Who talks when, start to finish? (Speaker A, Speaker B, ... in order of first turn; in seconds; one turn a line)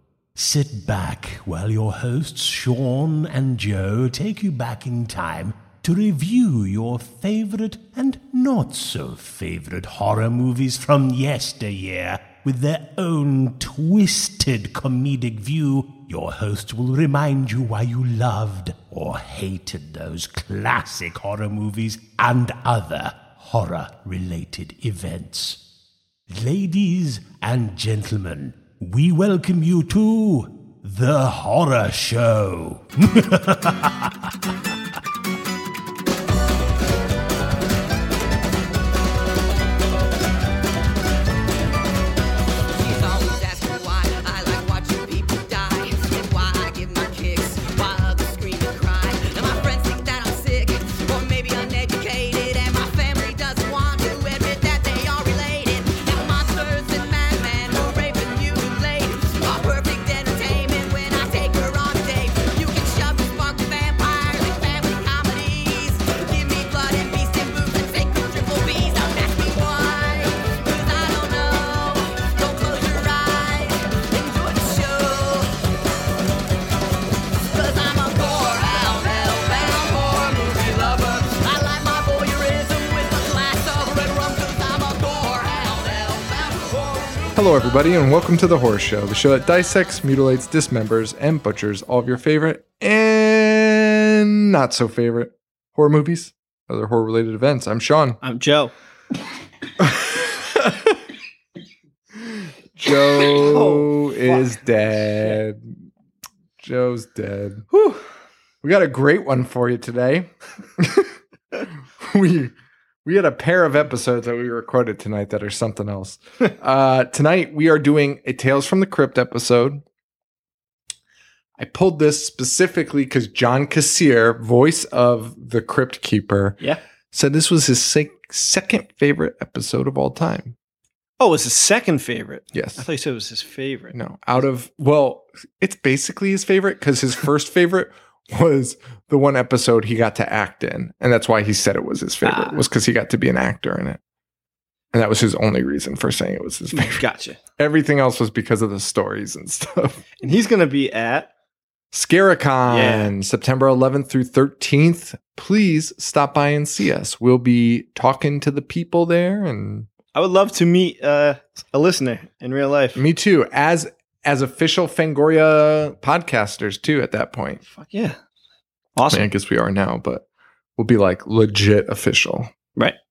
Speaker A: 0.4-25.6
Speaker A: 26.3-34.1
Speaker B: 42.7-75.6
Speaker B: 77.4-87.5
Speaker C: 87.3-98.2
Speaker D: 98.2-98.7
Speaker C: 99.8-100.7
Speaker C: 102.8-105.7
Speaker D: 103.2-104.5
Speaker C: 106.6-107.7
Speaker D: 107.7-108.0
Speaker C: 108.6-111.1
Speaker C: 112.0-112.5
Speaker C: 113.0-119.8
Speaker C: 121.6-126.6
Speaker C: 127.1-130.6
Speaker D: 131.2-133.9
Speaker C: 132.5-132.8
Speaker C: 133.9-144.0
Speaker D: 142.2-142.6
Speaker C: 144.9-147.0
Speaker D: 146.7-147.4
Speaker C: 147.6-150.0
Speaker D: 150.2-151.3
Speaker C: 151.9-159.9
Speaker D: 152.7-153.1
Speaker D: 160.1-163.0
Speaker C: 163.0-167.6
Speaker D: 167.7-168.2
Speaker D: 169.0-169.2
Speaker C: 169.1-170.2
Speaker C: 170.8-172.5